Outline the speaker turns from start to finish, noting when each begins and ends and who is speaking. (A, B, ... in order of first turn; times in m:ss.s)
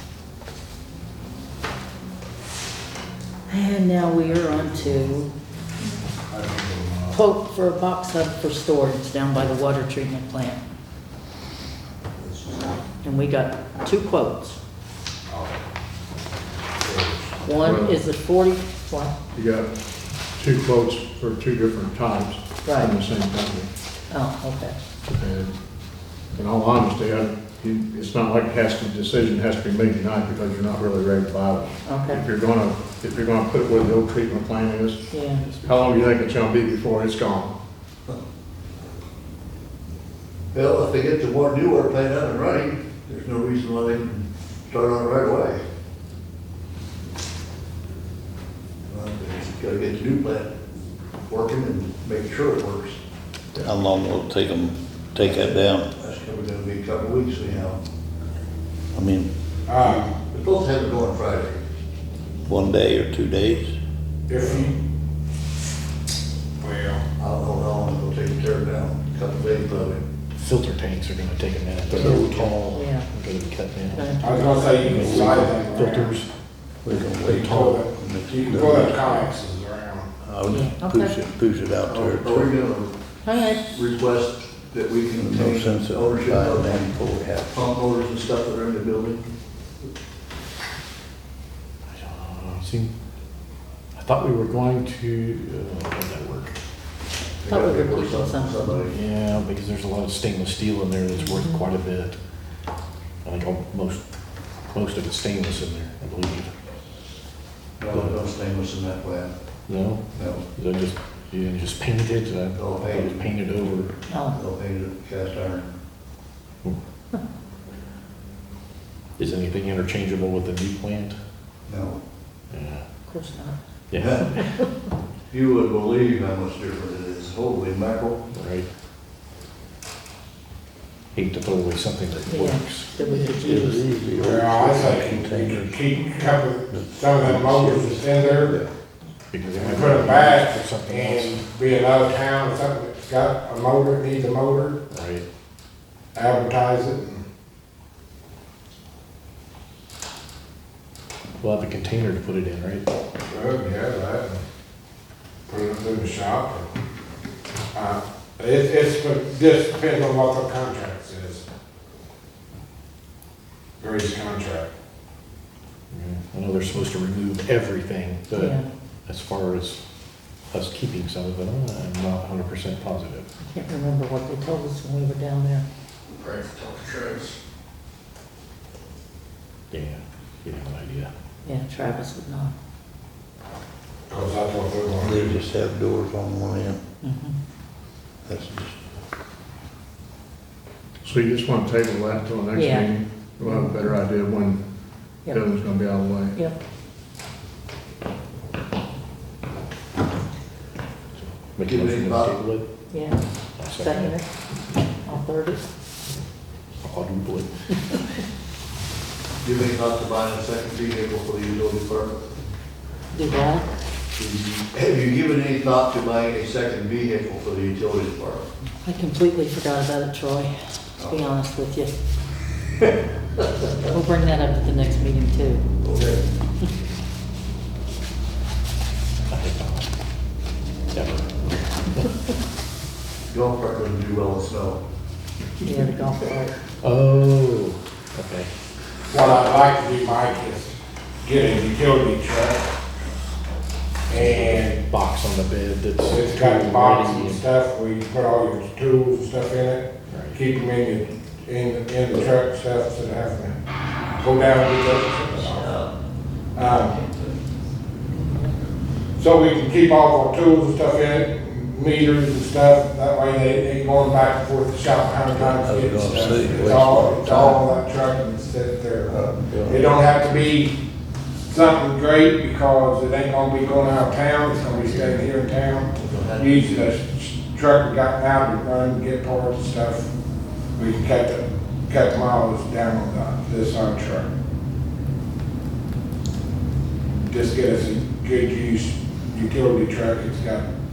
0:03.5-0:05.3 A
0:06.3-0:07.2 B
0:07.1-0:10.6 A
0:13.0-0:14.6 A
0:15.3-0:15.6 B
0:16.8-0:17.4 B
0:17.4-0:19.1 A
0:17.5-0:18.0 C
0:19.3-0:19.7 C
0:20.3-0:23.7 C
0:22.6-0:22.9 A
0:24.1-0:24.8 A
0:25.1-0:25.5 C
0:26.3-0:35.0 C
0:31.8-0:32.2 A
0:35.1-0:35.4 A
0:35.6-0:37.5 C
0:40.5-0:45.6 D
0:48.9-0:50.5 D
0:51.2-0:53.0 D
0:53.5-0:55.9 E
0:55.2-0:57.8 D
0:58.9-0:59.3 E
0:59.6-1:00.1 B
0:59.9-1:01.6 D
1:02.5-1:03.8 E
1:04.3-1:04.8 B
1:06.6-1:07.0 B
1:07.2-1:10.0 D
1:09.7-1:14.1 F
1:11.9-1:12.5 E
1:12.7-1:13.1 A
1:13.9-1:15.1 A
1:14.2-1:16.2 B
1:14.8-1:16.3 F
1:14.8-1:15.6 E
1:16.8-1:19.3 E
1:17.2-1:20.1 B
1:20.2-1:22.5 E
1:20.5-1:21.1 A
1:21.8-1:22.9 D
1:23.2-1:23.7 A
1:23.6-1:29.3 D
1:25.1-1:27.6 E
1:31.9-1:32.9 F
1:33.9-1:36.5 F
1:37.4-1:39.0 D
1:37.4-1:38.8 A
1:38.9-1:42.2 F
1:41.2-1:41.6 A
1:43.2-1:44.1 F
1:44.7-1:46.5 F
1:47.8-1:49.3 D
1:47.9-1:48.2 F
1:49.7-1:53.9 F
1:50.1-1:50.4 D
1:52.5-1:53.3 D
1:54.1-1:54.4 A
1:54.3-1:55.7 D
1:59.2-2:01.2 F
2:01.7-2:02.0 D
2:02.5-2:02.8 F
2:03.1-2:03.6 A
2:03.9-2:04.5 F
2:04.0-2:04.4 D
2:05.3-2:08.2 D
2:08.3-2:08.7 F
2:11.1-2:13.0 F
2:12.3-2:13.8 A
2:13.0-2:18.7 E
2:14.1-2:18.6 B
2:19.3-2:21.4 F
2:19.5-2:24.8 B
2:24.9-2:25.2 F
2:26.1-2:27.2 B
2:31.4-2:32.9 F
2:33.2-2:34.4 B
2:35.5-2:36.7 B
2:37.7-2:41.4 B
2:43.8-2:44.7 B
2:45.9-2:49.8 F
2:48.3-2:48.6 A
2:50.5-2:53.3 F
2:53.4-2:55.6 A
2:59.7-3:01.1 F
3:01.4-3:02.5 A
3:04.1-3:05.2 B
3:05.0-3:06.8 E
3:07.0-3:07.4 A
3:08.2-3:08.7 E
3:11.0-3:14.6 C
3:12.5-3:13.9 A
3:15.3-3:16.4 C
3:21.2-3:22.6 F
3:21.6-3:22.4 D
3:22.9-3:24.3 A
3:23.6-3:24.2 F
3:25.0-3:25.6 A
3:26.8-3:27.5 F
3:29.4-3:32.2 D
3:33.1-3:33.7 A
3:34.2-3:38.5 D
3:38.8-3:41.9 A
3:43.8-3:45.6 A
3:45.8-3:46.2 D
3:49.3-3:49.9 F
3:50.9-3:51.3 F
3:53.3-3:54.8 D
3:55.6-3:56.5 A
3:56.8-3:58.5 F
3:59.1-4:02.6 B
4:04.1-4:07.4 F
4:04.1-4:04.8 B
4:06.0-4:13.5 B
4:10.1-4:10.4 F
4:14.2-4:15.8 B
4:15.3-4:15.9 E
4:16.5-4:17.0 B
4:19.2-4:30.8 B
4:25.3-4:27.6 E
4:29.1-4:29.6 D
4:29.5-4:29.8 E
4:31.4-4:40.1 B
4:35.9-4:36.9 D
4:40.8-4:44.3 B
4:47.3-4:50.6 B